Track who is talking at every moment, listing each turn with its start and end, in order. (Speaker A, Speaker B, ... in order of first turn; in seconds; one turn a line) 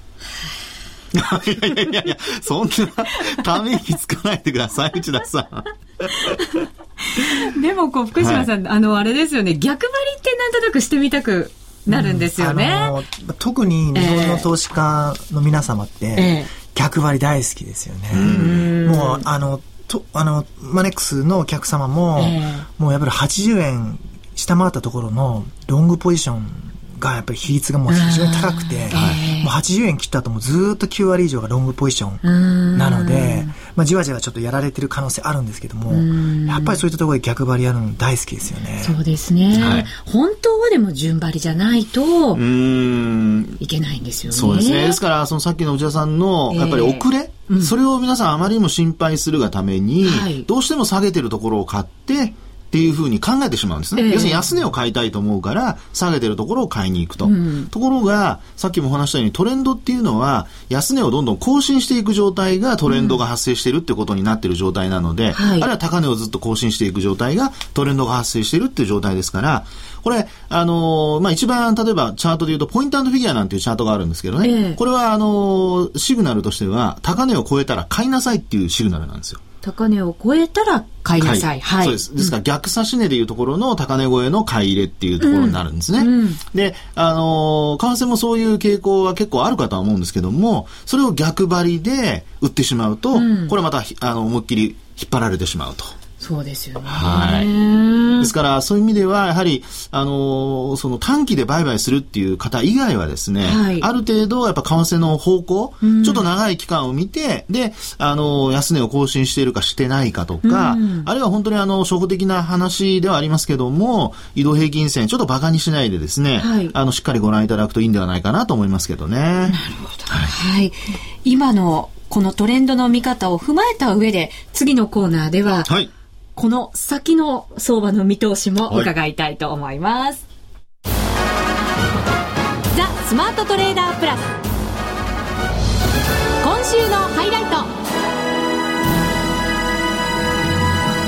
Speaker A: 1.1-6.3
Speaker B: 6.2-12.9
Speaker A: 8.2-8.5
Speaker C: 11.9-32.2
Speaker B: 13.9-14.5
Speaker B: 16.1-16.5
Speaker A: 18.1-18.7
Speaker B: 18.2-19.2
Speaker B: 22.2-22.6
Speaker B: 27.9-29.5
Speaker A: 28.9-29.2
Speaker B: 32.2-33.5
Speaker C: 32.7-39.0
Speaker B: 35.9-36.8
Speaker B: 38.8-42.4
Speaker A: 39.5-39.9
Speaker A: 42.3-43.6
Speaker B: 43.6-45.0
Speaker A: 44.3-79.4
Speaker B: 46.5-47.7
Speaker B: 50.0-50.5
Speaker B: 54.0-54.5
Speaker B: 57.2-57.7
Speaker B: 62.9-63.2
Speaker B: 65.3-65.7
Speaker B: 74.4-74.8
Speaker B: 79.6-82.3
Speaker A: 81.2-95.9
Speaker B: 85.2-86.4
Speaker B: 93.1-93.5
Speaker B: 96.2-98.3
Speaker A: 96.9-97.5
Speaker A: 98.2-120.3
Speaker B: 103.4-103.9
Speaker B: 105.8-106.3
Speaker B: 110.4-111.1
Speaker B: 116.4-116.7
Speaker B: 119.5-125.7
Speaker B: 126.3-130.2
Speaker B: 132.7-134.3
Speaker B: 136.4-137.7